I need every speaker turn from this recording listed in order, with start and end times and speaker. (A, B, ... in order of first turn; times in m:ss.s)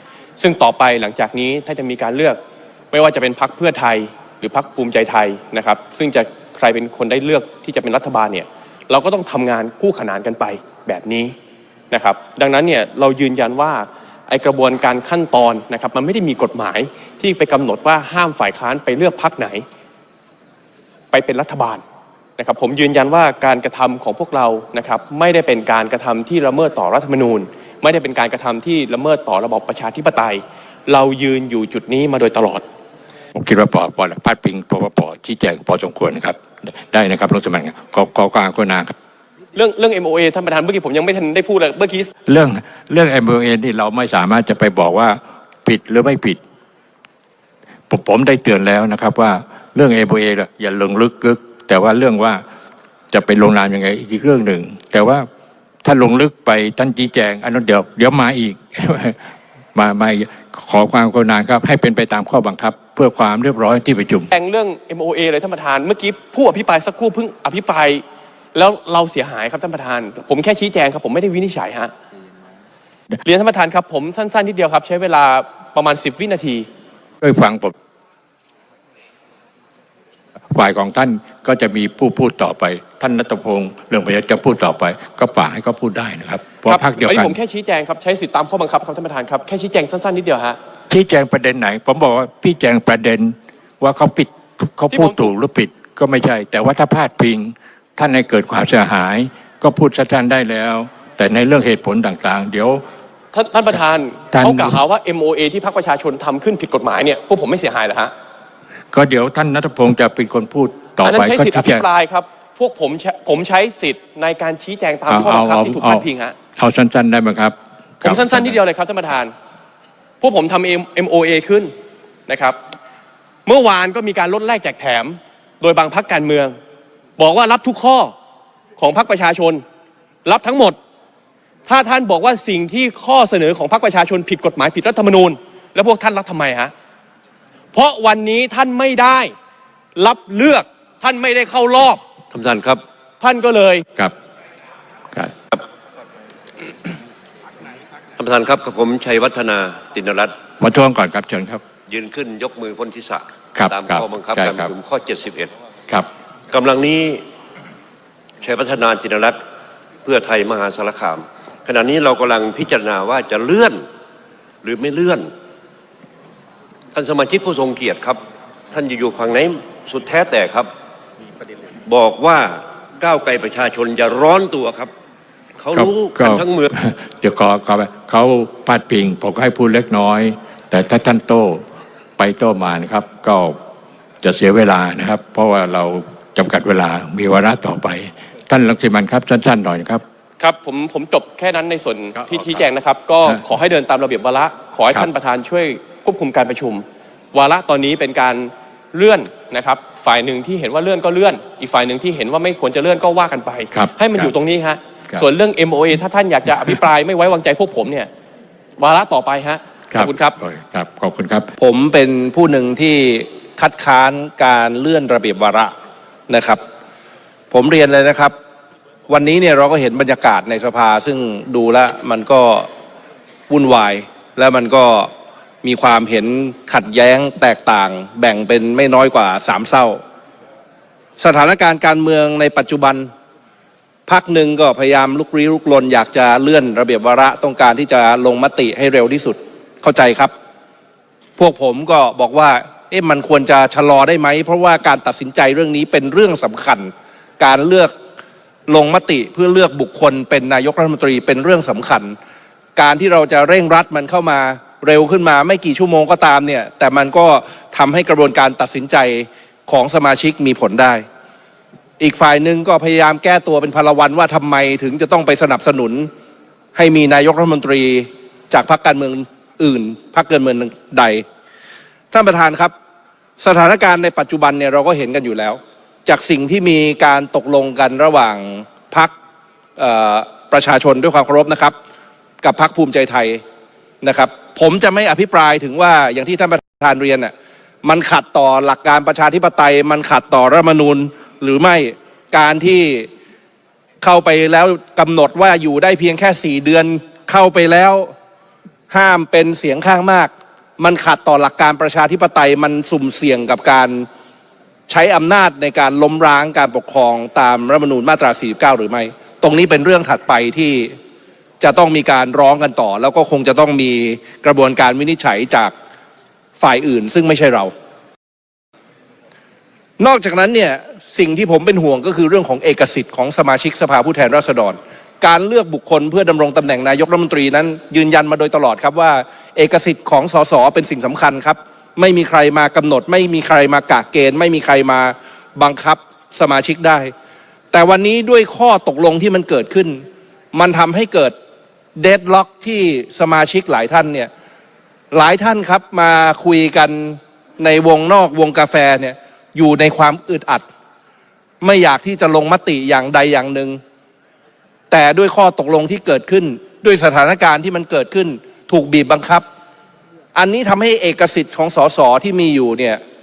0:00.4-0:02.4 A
0:02.9-0:11.3 A
0:11.9-0:19.6 A
0:21.1-0:21.8 A
0:22.4-0:32.6 A
0:33.3-0:38.9 B
0:39.5-0:42.1 A
0:42.2-0:46.4 B
0:47.9-0:52.4 B
0:53.1-0:55.2 B
0:55.8-0:59.2 B
0:59.7-1:04.3 B
1:04.3-1:08.0 A
1:08.5-1:11.9 A
1:13.2-1:16.7 A
1:17.2-1:17.7 B
1:20.5-1:27.3 B
1:26.7-1:30.6 A
1:30.9-1:42.8 B
1:34.9-1:35.3 A
1:43.3-1:48.1 A
1:44.3-1:44.8 B
1:48.9-1:51.8 B
1:51.0-1:56.3 A
1:55.1-1:58.6 B
1:58.0-1:59.3 A
2:00.2-2:01.7 A
2:02.3-2:02.6 A
2:03.4-2:06.6 A
2:07.2-2:08.1 A
2:08.8-2:09.6 A
2:10.2-2:10.8 A
2:11.7-2:16.7 A
2:17.7-2:19.3 A
2:20.0-2:22.0 A
2:22.3-2:22.8 C
2:23.2-2:23.8 A
2:28.2-2:30.3 C
2:30.6-2:31.6 B
2:31.9-2:35.5 C
2:33.5-2:34.7 B
2:36.5-2:37.2 C
2:38.4-2:39.4 C
2:40.0-2:43.9 C
2:44.6-2:45.3 C
2:46.9-2:48.2 C
2:48.7-2:50.7 C
2:51.8-2:54.9 C
2:55.6-2:56.7 C
2:55.8-3:01.6 B
3:02.2-3:03.6 B
3:04.2-3:10.0 B
3:10.4-3:28.1 A
3:12.2-3:12.6 B
3:23.7-3:24.3 B
3:28.8-3:30.3 A
3:29.9-3:31.5 B
3:31.6-3:35.7 D
3:36.3-3:36.6 D
3:37.5-3:38.3 D
3:39.1-3:42.7 D
3:43.5-3:45.1 D
3:45.6-3:50.0 D
3:51.2-3:53.1 D
3:54.1-4:00.3 D
4:01.4-4:07.9 D
4:08.7-4:12.1 D
4:12.8-4:21.0 D
4:22.0-4:26.1 D
4:26.7-4:31.2 D
4:32.1-4:32.7 D
4:33.4-4:39.1 D
4:39.8-4:41.7 D
4:42.4-4:43.4 D
4:44.0-4:47.3 D
4:47.8-4:53.1 D
4:54.0-4:58.1 D
4:58.9-5:04.1 D
5:04.9-5:10.9 D
5:11.6-5:15.7 D
5:16.6-5:17.7 D
5:20.0-5:37.1 D
5:37.7-5:41.3 D
5:42.0-5:44.3 D
5:45.1-5:50.6 D
5:51.6-5:53.8 D
5:54.9-5:59.4 D
6:00.3-6:03.0 D